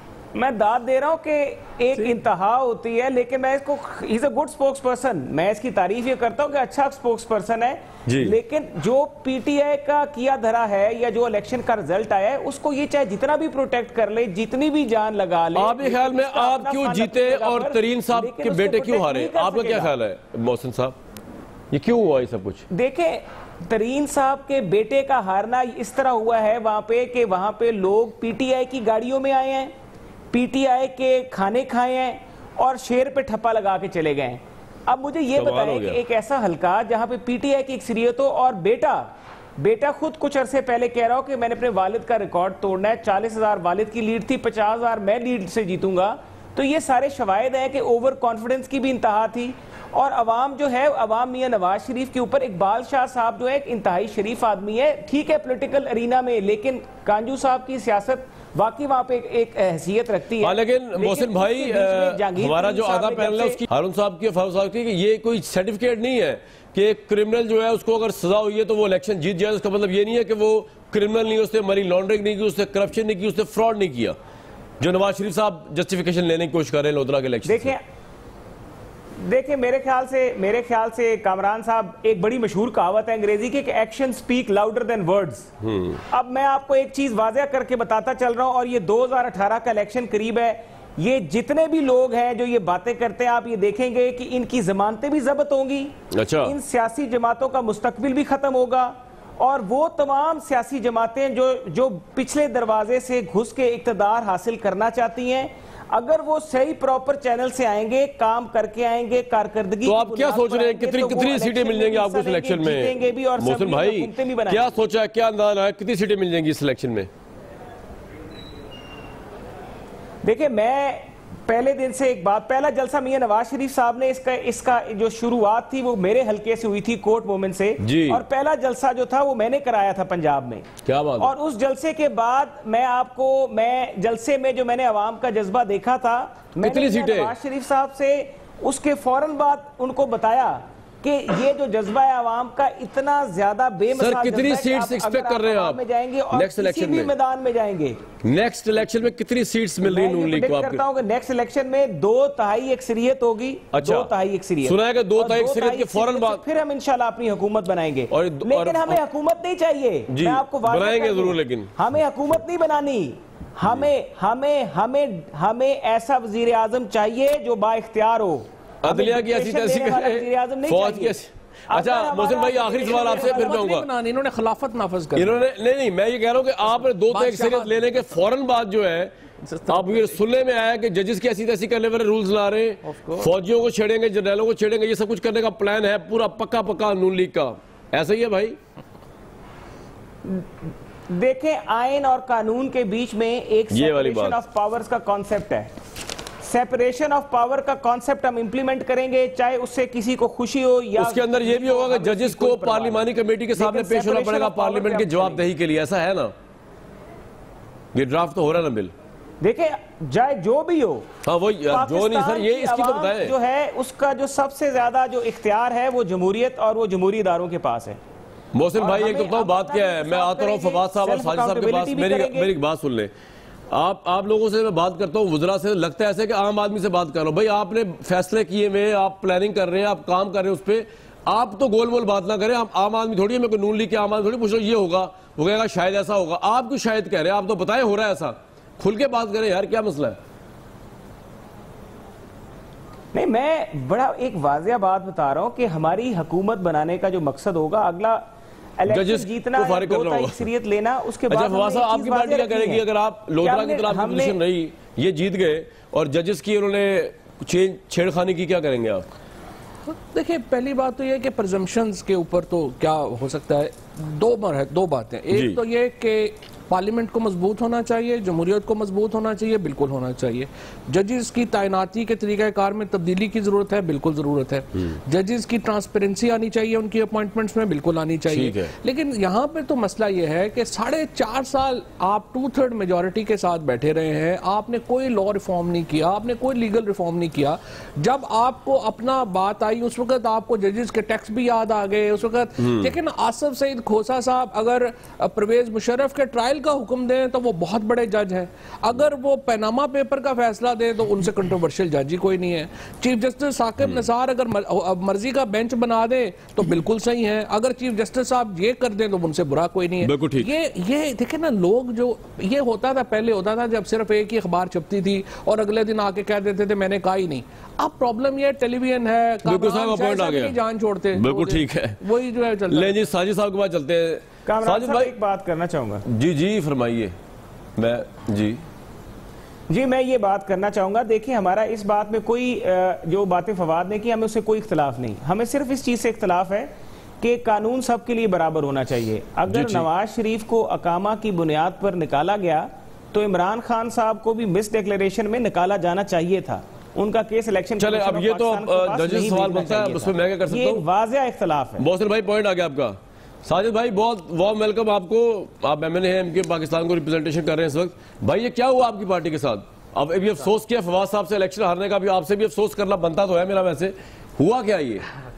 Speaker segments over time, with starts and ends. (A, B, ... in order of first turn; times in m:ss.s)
0:00.3-0:19.9 A
0:08.0-0:08.4 B
0:15.5-0:21.0 B
0:21.7-0:22.6 B
0:22.7-0:29.7 A
0:30.3-1:03.6 A
0:35.3-0:36.0 B
1:00.4-1:14.2 B
1:14.8-1:17.7 B
1:17.4-1:17.8 A
1:19.2-1:25.5 A
1:25.6-1:26.0 B
1:26.1-1:54.7 A
1:36.1-1:36.6 B
1:49.8-1:57.1 B
2:00.2-2:10.6 A
2:07.8-2:08.2 B
2:10.8-2:11.3 B
2:11.2-2:28.0 A
2:16.6-2:17.3 B
2:23.9-2:25.8 B
2:26.3-2:27.1 B
2:28.2-2:30.8 B
2:29.8-2:51.2 A
2:33.7-2:34.1 B
2:34.6-2:36.4 B
2:38.1-2:39.0 B
2:40.1-2:41.8 B
2:48.8-2:53.9 B
2:51.7-2:53.6 A
2:52.8-2:55.4 C
2:55.2-2:59.1 B
2:56.7-2:58.0 C
2:59.5-3:00.2 C
2:59.7-3:08.6 B
3:02.8-3:03.3 C
3:10.2-3:15.7 A
3:13.7-3:14.4 B
3:16.4-3:25.4 A
3:21.0-3:26.3 B
3:27.9-3:28.9 B
3:29.4-3:31.1 A
3:31.2-3:33.3 B
3:31.7-3:38.0 A
3:38.5-3:43.1 B
3:38.8-3:42.5 A
3:43.7-4:00.2 B
4:03.1-4:08.3 A
4:08.8-4:12.8 A
4:08.9-4:10.5 B
4:11.3-4:19.0 B
4:13.4-4:14.4 A
4:20.0-5:22.9 C
4:25.3-4:25.6 B
4:38.3-4:38.7 B
4:52.6-4:52.9 B
5:10.0-5:10.5 B
5:19.4-5:20.6 B
5:21.1-5:22.0 B
5:22.7-5:25.1 B
5:24.5-5:26.0 A
5:26.1-5:27.1 B
5:27.8-5:28.6 B
5:29.7-5:51.9 A
5:39.5-5:39.9 B
5:47.8-5:50.8 B
5:51.8-6:05.0 B